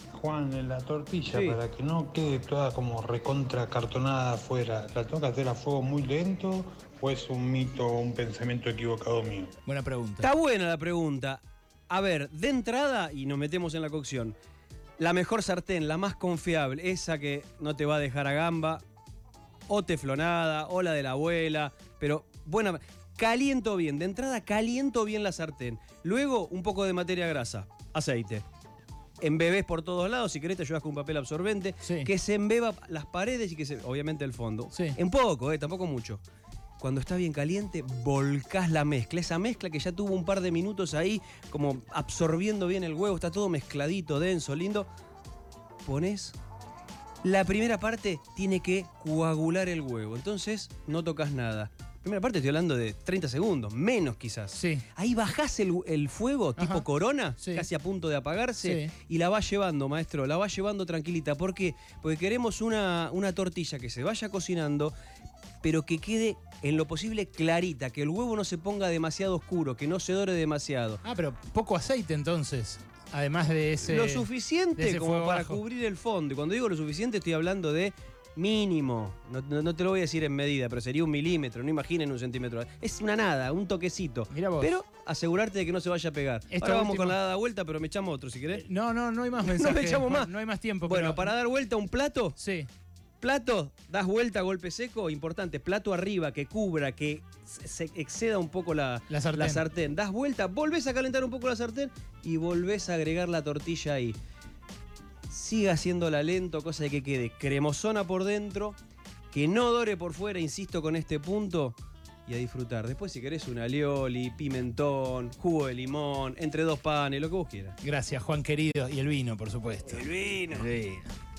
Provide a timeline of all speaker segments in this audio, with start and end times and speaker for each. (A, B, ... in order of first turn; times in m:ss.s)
0:00.1-0:09.5 A
0:01.3-0:01.6 B
0:09.7-0:10.3 C
0:10.2-0:14.4 B
0:15.0-0:18.8 B
0:19.7-0:28.4 B
0:29.2-0:36.2 B
0:31.8-0:32.1 C
0:36.8-0:44.9 B
0:45.8-0:46.4 B
0:47.2-1:04.9 B
0:54.5-0:54.8 C
0:56.6-0:56.9 C
0:57.4-0:57.7 C
0:58.6-0:58.9 C
1:05.6-1:11.0 B
1:11.0-1:15.6 C
1:13.8-1:28.6 B
1:24.3-1:24.7 C
1:26.5-1:27.2 C
1:28.6-1:31.3 C
1:29.4-1:32.4 B
1:32.4-1:32.7 C
1:33.2-1:44.2 B
1:39.1-1:39.6 C
1:45.3-1:48.8 B
1:49.3-1:51.8 B
1:52.3-1:57.8 B
1:57.8-2:01.1 C
1:59.9-2:00.7 B